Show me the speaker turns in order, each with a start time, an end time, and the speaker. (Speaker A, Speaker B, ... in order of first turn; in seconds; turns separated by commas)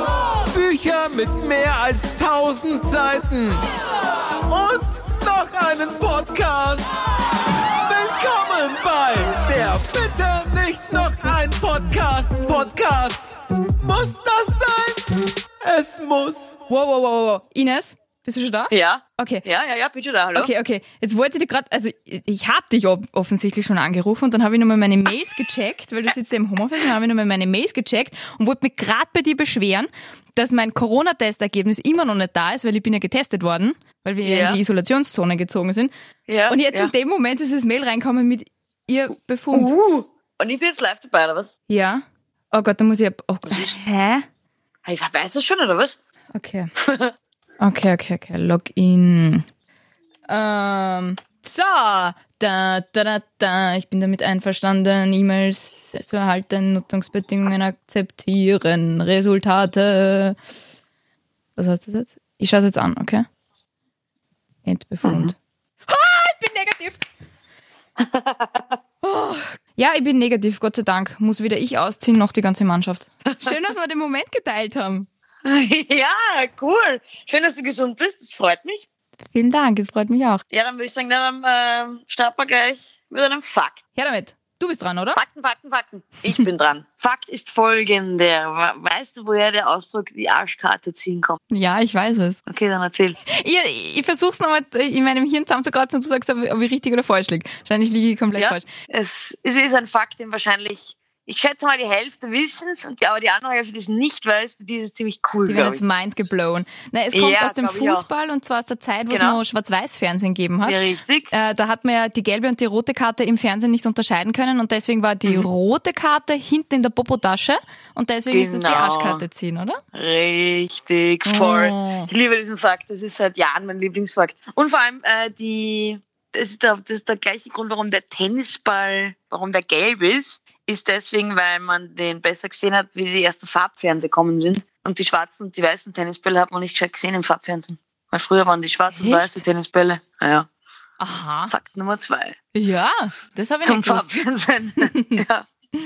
Speaker A: 0.4-3.6, Speaker A: 4.4-6.9, Speaker A: 7.8-15.1, Speaker A: 15.6-16.6, Speaker B: 16.7-19.5, Speaker C: 18.7-20.5, Speaker B: 20.4-35.9, Speaker C: 34.2-34.6, Speaker C: 36.3-36.9, Speaker B: 36.5-39.7, Speaker C: 39.5-41.5, Speaker B: 41.7-44.3, Speaker C: 43.5-43.8, Speaker C: 44.9-46.0, Speaker B: 46.4-46.7, Speaker C: 46.8-47.1, Speaker B: 47.6-49.5, Speaker B: 50.3-60.4, Speaker B: 61.6-63.3, Speaker B: 64.7-65.3, Speaker C: 65.0-65.3, Speaker B: 65.9-67.0, Speaker C: 68.0-68.8, Speaker B: 69.0-75.1, Speaker C: 75.5-78.9, Speaker B: 79.3-80.4, Speaker C: 80.5-83.8, Speaker B: 84.0-85.2, Speaker C: 85.2-91.4, Speaker B: 91.5-92.4, Speaker C: 92.5-93.2, Speaker B: 93.3-98.7, Speaker C: 98.3-105.8, Speaker B: 105.5-110.8, Speaker C: 107.1-108.1, Speaker C: 109.1-109.4, Speaker C: 110.6-111.3, Speaker B: 111.3-119.8, Speaker C: 118.3-119.2, Speaker C: 119.9-140.5, Speaker B: 121.2-122.1, Speaker B: 139.0-139.4, Speaker B: 141.0-141.5, Speaker C: 141.5-142.4, Speaker B: 142.6-144.1, Speaker C: 143.6-145.5, Speaker B: 144.8-145.2